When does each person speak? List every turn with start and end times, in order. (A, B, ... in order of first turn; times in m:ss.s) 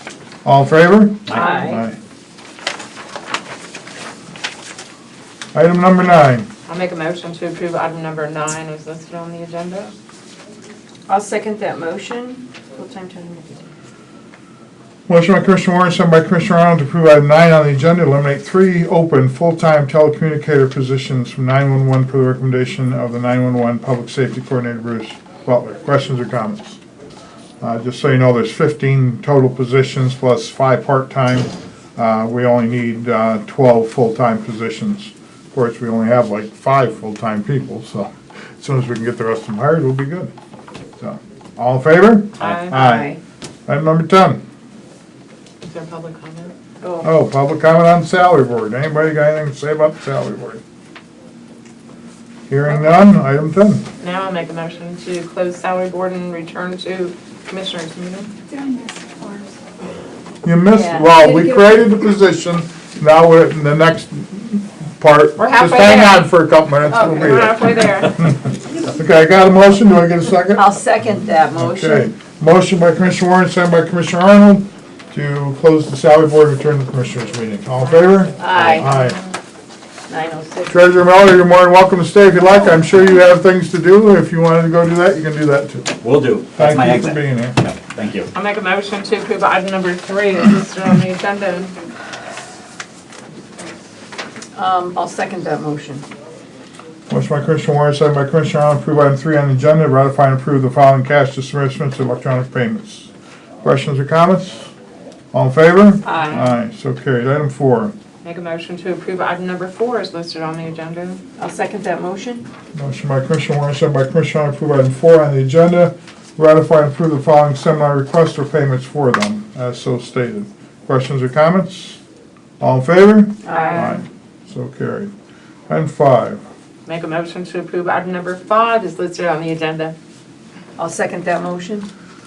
0:00.4-0:02.0 A
0:01.3-0:01.8 B
0:05.5-0:06.5 A
0:06.7-0:09.9 C
0:11.1-0:13.7 B
0:15.1-0:26.8 A
0:27.6-0:40.3 A
0:41.0-0:44.4 A
0:42.4-0:42.8 C
0:42.7-0:43.2 B
0:45.6-0:46.5 C
0:47.0-0:50.6 A
0:52.5-0:53.9 A
0:54.0-0:58.3 C
0:58.6-0:59.5 B
1:00.4-1:10.7 A
1:00.7-1:01.9 B
1:05.4-1:06.3 C
1:06.9-1:08.3 C
1:10.6-1:12.1 B
1:11.5-1:19.2 A
1:18.4-1:18.9 B
1:18.8-1:19.1 C
1:20.1-1:20.8 B
1:20.7-1:27.6 A
1:26.0-1:28.3 D
1:28.3-1:31.8 C
1:34.6-1:36.1 B
1:37.1-1:43.1 A
1:43.6-1:44.7 A
1:45.3-1:47.9 A
1:46.0-1:46.5 B
1:48.2-1:51.2 C
1:51.4-1:52.5 B
1:52.8-2:02.0 A
2:02.6-2:05.1 A
2:03.4-2:03.9 B
2:03.5-2:04.0 C
2:05.7-2:06.4 A
2:06.9-2:10.0 C
2:10.8-2:11.9 B